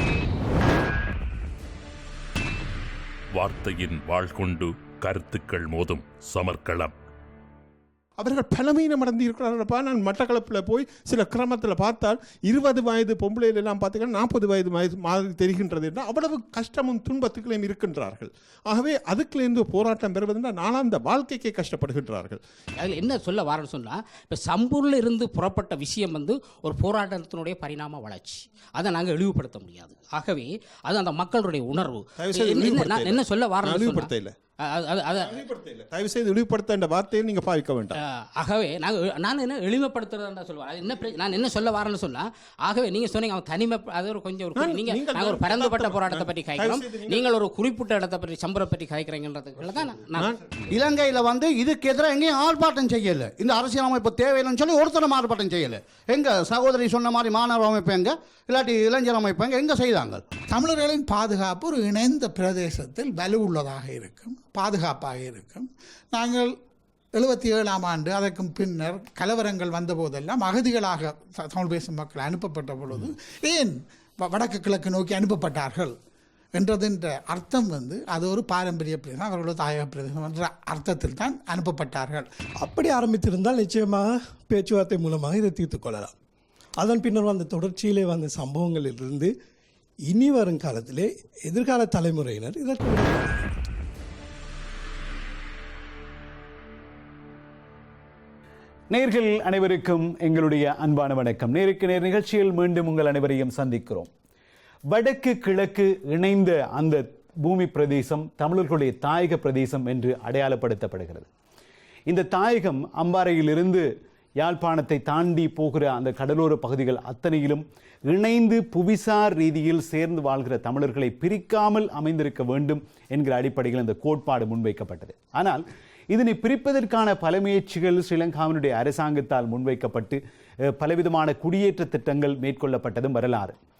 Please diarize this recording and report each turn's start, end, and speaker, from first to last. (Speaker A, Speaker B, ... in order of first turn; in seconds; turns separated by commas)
Speaker A: 3.3-6.9, Speaker B: 8.2-22.4, Speaker C: 22.8-35.5, Speaker B: 32.2-34.3, Speaker B: 35.5-37.9, Speaker C: 37.9-50.4, Speaker B: 44.6-47.2, Speaker B: 50.1-50.5, Speaker D: 50.5-60.2, Speaker E: 60.5-66.5, Speaker E: 67.1-75.9, Speaker E: 76.5-82.3, Speaker F: 82.6-86.1, Speaker F: 86.8-89.3, Speaker F: 90.1-93.4, Speaker G: 98.9-104.1, Speaker G: 104.9-111.3, Speaker G: 112.1-113.9, Speaker G: 114.4-133.6